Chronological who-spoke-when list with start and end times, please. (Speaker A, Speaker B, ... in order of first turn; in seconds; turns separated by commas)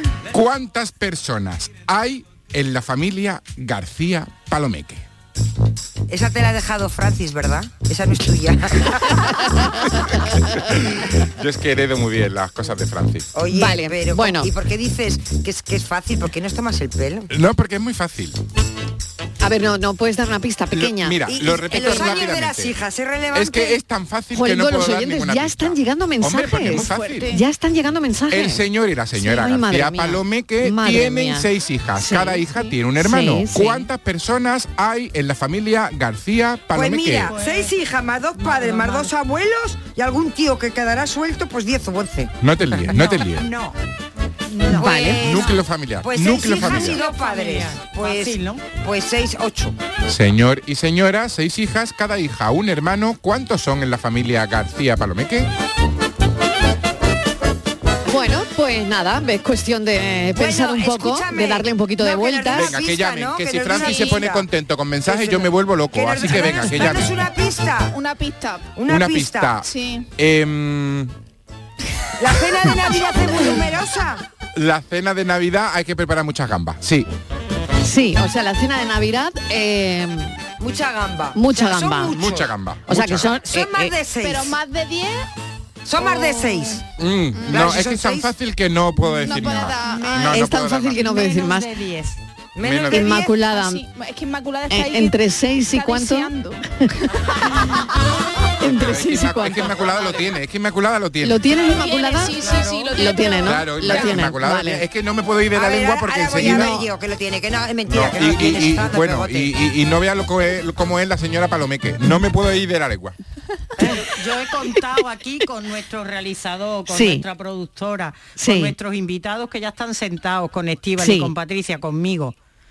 Speaker A: 0.3-5.0, Speaker B: 6.1-9.7, Speaker A: 10.7-13.3, Speaker B: 13.3-17.3, Speaker C: 13.5-14.5, Speaker A: 17.3-18.4, Speaker C: 19.4-21.2, Speaker A: 20.7-22.8, Speaker B: 21.3-23.8, Speaker C: 21.8-22.1, Speaker A: 23.3-27.3, Speaker C: 24.3-31.5, Speaker D: 27.1-27.4, Speaker A: 28.3-37.3, Speaker C: 32.0-32.4, Speaker C: 33.0-33.9, Speaker B: 36.7-43.8, Speaker E: 37.3-37.7, Speaker E: 38.4-39.1, Speaker A: 42.4-43.5, Speaker B: 44.6-49.8, Speaker C: 44.7-45.2, Speaker A: 44.8-47.0, Speaker E: 46.6-48.6, Speaker A: 50.1-55.5, Speaker C: 58.1-62.7, Speaker B: 60.4-64.5, Speaker A: 62.5-67.3, Speaker D: 63.7-64.2, Speaker B: 65.0-67.9, Speaker D: 67.9-68.7, Speaker B: 68.8-69.6, Speaker A: 68.9-71.1, Speaker D: 69.6-70.1, Speaker B: 72.2-74.2, Speaker A: 74.5-77.1, Speaker C: 77.8-80.4, Speaker B: 80.6-82.5, Speaker C: 81.3-82.2, Speaker A: 82.1-83.3, Speaker C: 82.9-84.0, Speaker B: 83.2-84.6, Speaker D: 84.2-85.2, Speaker B: 85.9-86.8, Speaker D: 86.0-86.8, Speaker A: 87.0-91.0, Speaker B: 87.5-88.3, Speaker D: 89.2-90.5, Speaker E: 89.8-90.2, Speaker C: 90.3-91.8, Speaker E: 91.0-92.2, Speaker B: 92.6-92.9, Speaker A: 92.6-93.1, Speaker D: 92.8-96.7, Speaker C: 92.9-93.8, Speaker C: 94.7-96.9, Speaker C: 98.6-99.8, Speaker A: 98.6-101.6, Speaker C: 101.2-104.8, Speaker D: 101.7-104.0, Speaker A: 103.4-106.9, Speaker B: 105.5-109.5, Speaker A: 107.9-113.2, Speaker E: 113.8-122.3, Speaker C: 116.9-117.2, Speaker C: 118.4-118.8, Speaker C: 121.0-121.3